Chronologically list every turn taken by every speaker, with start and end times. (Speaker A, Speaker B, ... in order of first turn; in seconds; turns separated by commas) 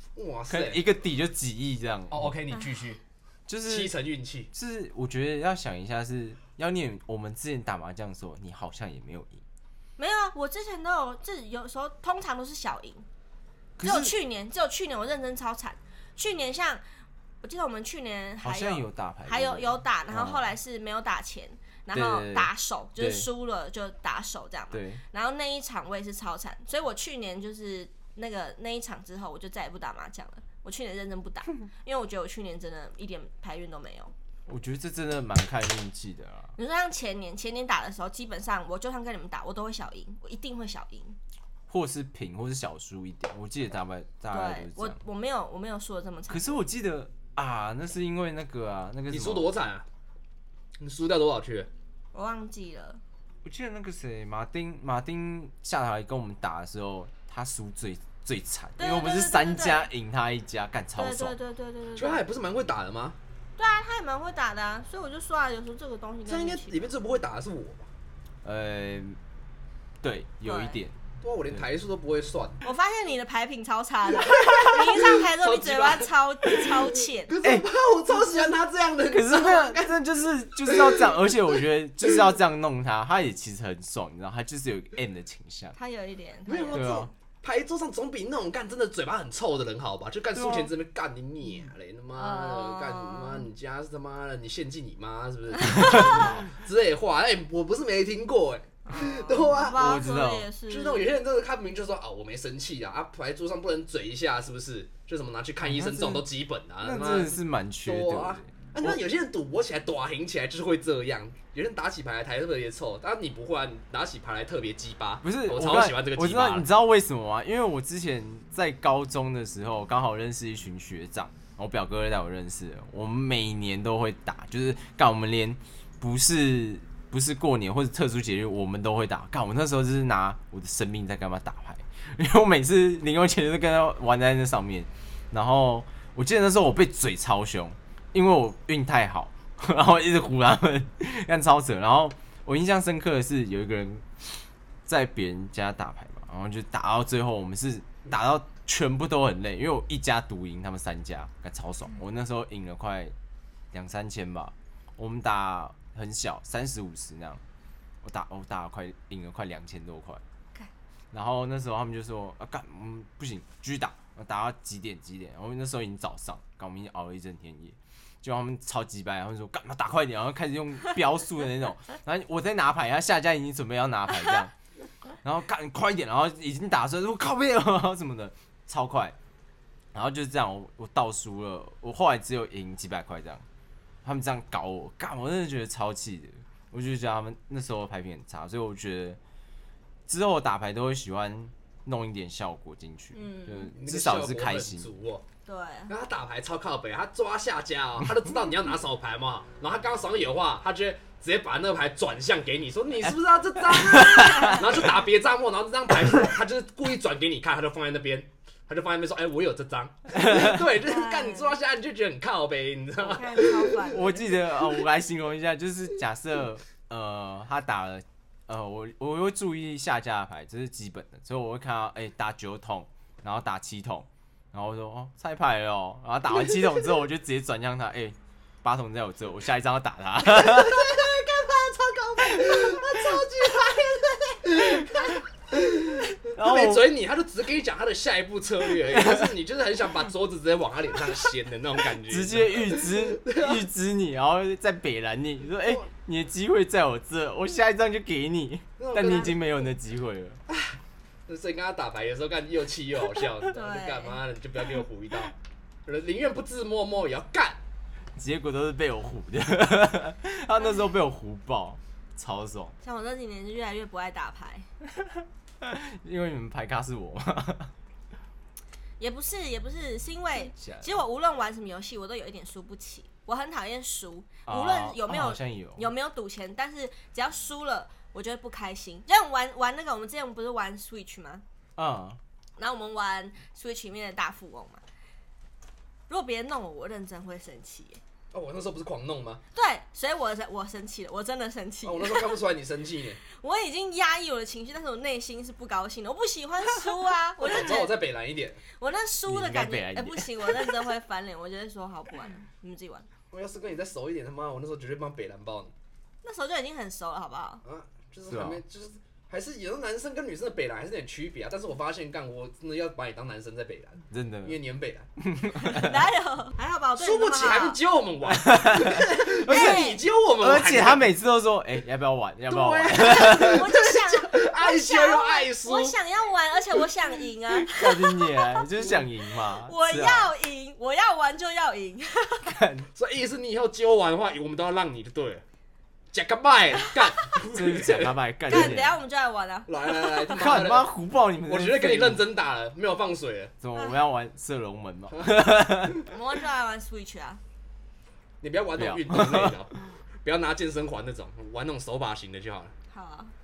Speaker A: 0.2-0.8, Speaker B: 0.5-2.4, Speaker A: 2.1-3.0, Speaker B: 3.5-3.9, Speaker A: 3.7-4.5, Speaker B: 4.5-9.4, Speaker C: 10.0-13.1, Speaker B: 13.8-14.1, Speaker C: 13.8-16.9, Speaker C: 17.4-34.1, Speaker B: 18.4-20.5, Speaker B: 21.9-23.3, Speaker B: 24.7-25.0, Speaker B: 34.5-36.5, Speaker C: 36.6-41.2, Speaker B: 41.7-45.0, Speaker C: 44.3-46.6, Speaker B: 46.3-49.5, Speaker A: 49.1-49.9, Speaker A: 50.8-51.7, Speaker C: 52.1-53.0, Speaker B: 53.4-61.4, Speaker C: 58.8-59.9, Speaker C: 61.0-62.2, Speaker A: 62.0-63.2, Speaker C: 63.6-66.9, Speaker A: 66.3-67.9, Speaker B: 68.4-69.2, Speaker B: 70.0-71.0, Speaker C: 70.5-70.8, Speaker A: 71.2-72.6, Speaker C: 72.6-77.3, Speaker A: 74.2-79.9, Speaker B: 77.4-78.5, Speaker B: 79.1-85.8, Speaker A: 80.7-81.1, Speaker C: 85.8-87.1, Speaker A: 86.5-99.9, Speaker B: 86.7-87.1, Speaker B: 90.3-90.7, Speaker C: 92.1-93.5, Speaker C: 95.6-96.3, Speaker B: 95.8-96.3, Speaker C: 98.9-101.1, Speaker B: 99.7-100.5, Speaker A: 100.7-116.7, Speaker B: 105.6-106.3, Speaker B: 106.8-109.0, Speaker B: 115.2-153.2, Speaker B: 153.7-157.4, Speaker B: 158.0-160.2, Speaker B: 161.1-174.5, Speaker B: 175.2-179.2, Speaker B: 179.9-183.4, Speaker B: 184.0-189.2, Speaker B: 190.1-194.9, Speaker C: 193.1-193.7, Speaker A: 193.8-195.2, Speaker C: 195.5-195.9, Speaker A: 195.9-214.0, Speaker B: 203.1-204.8, Speaker C: 204.2-204.7, Speaker B: 210.1-210.6, Speaker C: 210.8-211.6, Speaker C: 213.0-214.2, Speaker B: 213.9-231.0, Speaker A: 230.4-243.6, Speaker B: 232.4-233.2, Speaker B: 234.5-235.2, Speaker B: 236.1-236.9, Speaker B: 238.8-239.3, Speaker B: 242.1-250.4, Speaker A: 248.8-249.5, Speaker A: 250.5-255.3, Speaker C: 253.4-254.2, Speaker A: 255.9-257.6, Speaker B: 258.2-262.8, Speaker C: 262.8-264.7, Speaker B: 265.0-267.7, Speaker C: 269.0-281.4, Speaker B: 270.4-271.0, Speaker B: 274.5-275.9, Speaker B: 281.8-282.2, Speaker C: 282.6-284.8, Speaker C: 286.1-288.0, Speaker A: 288.3-289.4, Speaker C: 289.5-292.4, Speaker A: 291.8-293.2, Speaker C: 293.3-298.0, Speaker A: 297.4-298.6, Speaker C: 298.8-303.1, Speaker B: 299.3-300.8, Speaker A: 303.3-305.7, Speaker C: 306.2-307.6, Speaker A: 307.6-315.1, Speaker B: 308.3-308.6, Speaker B: 314.1-314.6, Speaker B: 315.2-316.0, Speaker C: 315.5-317.8, Speaker A: 317.0-321.1, Speaker B: 318.3-319.9, Speaker C: 319.4-320.0, Speaker B: 320.4-323.7, Speaker A: 322.5-326.0, Speaker C: 322.9-332.6, Speaker B: 327.7-330.3, Speaker B: 332.5-332.9, Speaker A: 332.9-335.4, Speaker A: 336.1-338.7, Speaker B: 337.5-339.0, Speaker C: 338.5-340.5, Speaker A: 339.7-340.9, Speaker B: 340.3-342.2, Speaker A: 341.5-343.5, Speaker B: 343.6-346.0, Speaker C: 346.1-347.4, Speaker A: 348.4-352.7, Speaker B: 348.8-349.7, Speaker C: 352.9-353.3